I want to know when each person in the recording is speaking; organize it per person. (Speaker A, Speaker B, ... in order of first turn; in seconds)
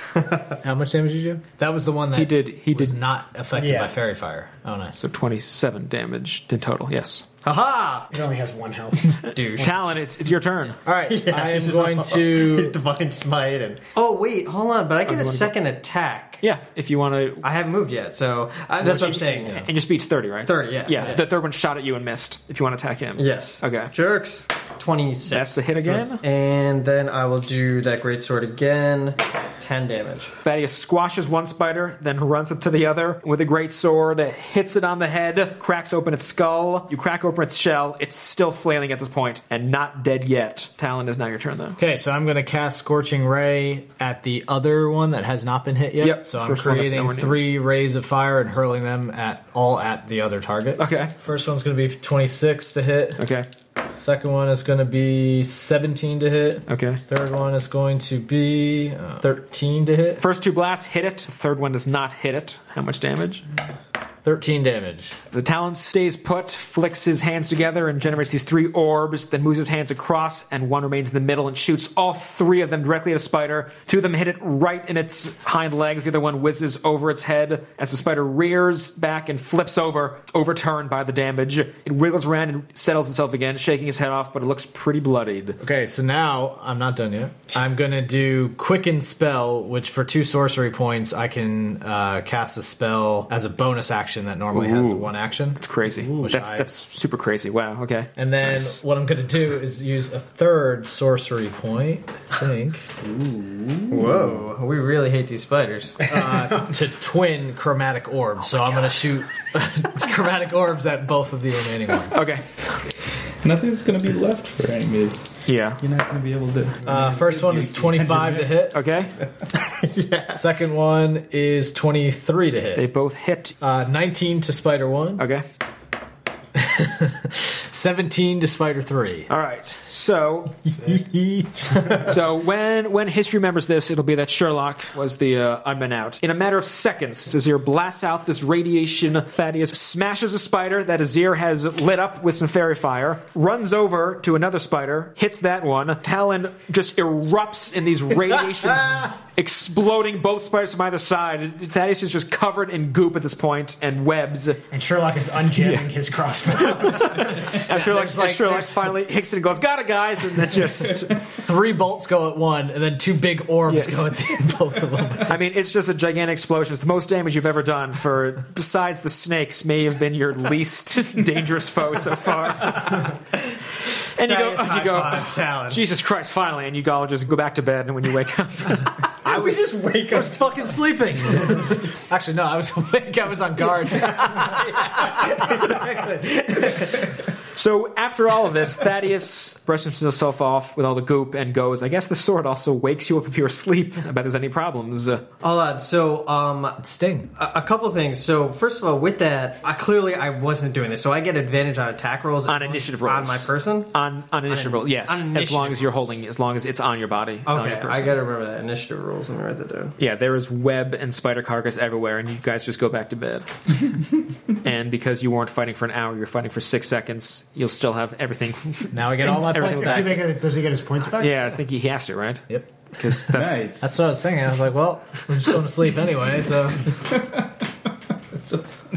Speaker A: 0.2-0.5, 7.4-8.1, 9.3-9.8, 11.1-16.4, 17.4-19.6, 20.5-21.2, 23.2-30.3, 103.9-106.2, 119.5-120.4, 174.2-175.8, 179.2-180.8, 184.2-187.1, 195.4-196.8, 197.3-203.9, 204.5-206.2, 207.5-210.0
Speaker B: 0.6-5.0, 10.8-12.8, 18.8-19.7, 41.8-53.2, 54.0-60.2, 64.2-65.2, 85.6-96.7, 98.2-102.9, 106.0-112.2, 116.8-118.8, 120.3-122.8, 123.6-125.2, 126.5-129.3, 130.8-132.1, 157.5-158.9, 161.3-165.3, 179.3-185.7, 196.8-197.3, 218.9-220.2, 223.8-226.9
Speaker C: 2.1-3.0, 5.0-7.3, 9.2-10.8, 15.1-15.5, 16.4-17.4, 19.4-23.9, 25.3-26.2, 30.4-41.8, 46.0-47.4, 50.8-51.1, 53.2-53.5, 56.7-57.0, 60.2-63.5, 65.3-85.6, 94.5-98.8, 112.1-112.5, 115.5-115.8, 118.7-119.1, 122.8-123.6, 125.2-125.4, 129.3-130.9, 131.8-154.6, 155.6-155.9, 156.6-161.3, 163.7-164.4, 165.2-173.1, 174.2-178.9, 187.6-195.2, 202.5-208.2, 210.0-213.5, 214.6-220.2, 221.2-223.6
Speaker D: 3.6-3.9, 8.1-9.7, 154.7-157.4, 219.3-221.4
Speaker E: 103.0-104.3, 113.4-115.2, 115.8-118.8, 223.3-223.9, 227.1-227.5, 228.3-228.7